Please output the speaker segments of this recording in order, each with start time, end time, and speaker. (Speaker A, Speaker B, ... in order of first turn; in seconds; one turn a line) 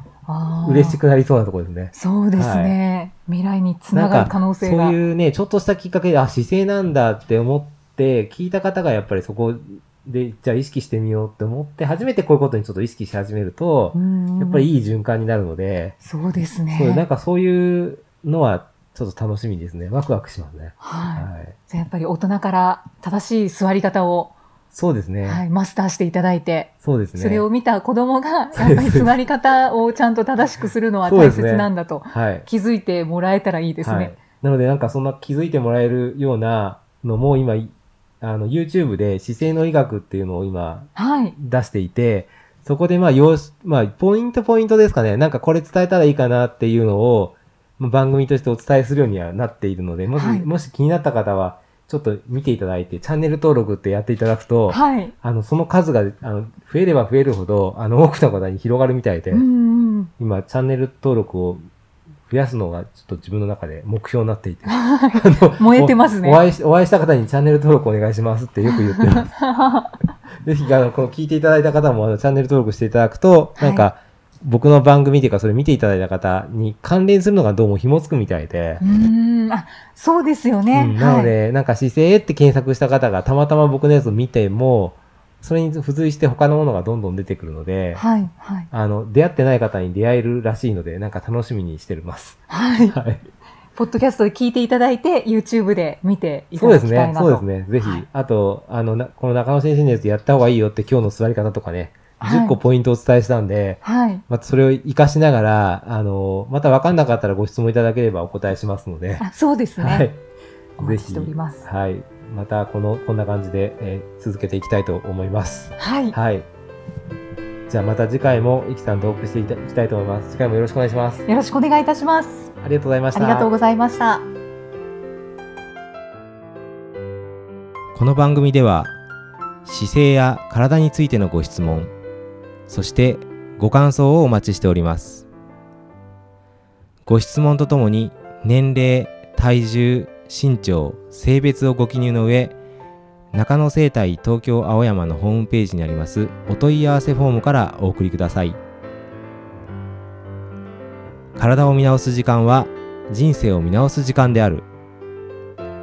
Speaker A: 0.3-1.0
Speaker B: 0.6-2.8
Speaker A: 1.9-5.0
Speaker B: 3.9-16.0
Speaker A: 13.9-14.7
Speaker A: 16.0-17.0
Speaker B: 16.7-21.6
Speaker A: 20.8-24.3
Speaker B: 24.7-25.4
Speaker A: 25.2-34.1
Speaker B: 26.8-27.5
Speaker B: 28.5-29.2
Speaker B: 31.1-32.5
Speaker B: 33.8-59.5
Speaker A: 41.0-41.4
Speaker A: 50.1-50.5
Speaker A: 54.7-55.1
Speaker A: 59.3-60.1
Speaker B: 60.2-61.7
Speaker B: 62.3-69.3
Speaker A: 64.7-66.4
Speaker A: 68.7-69.9
Speaker B: 70.4-78.8
Speaker A: 73.6-73.9
Speaker A: 78.8-81.3
Speaker B: 80.7-88.1
Speaker A: 88.0-88.7
Speaker B: 88.7-93.3
Speaker A: 92.5-93.0
Speaker A: 93.8-98.0
Speaker B: 96.5-110.2
Speaker A: 102.2-102.6
Speaker A: 103.8-104.2
Speaker A: 109.2-110.1
Speaker A: 110.8-111.7
Speaker B: 110.8-116.5
Speaker A: 115.8-116.2
Speaker B: 117.7-121.2
Speaker A: 121.3-122.5
Speaker B: 122.6-123.5
Speaker A: 123.1-124.3
Speaker B: 127.9-128.9
Speaker B: 129.7-131.9
Speaker B: 132.7-135.3
Speaker B: 137.1-142.6
Speaker B: 143.3-148.6
Speaker B: 151.3-154.7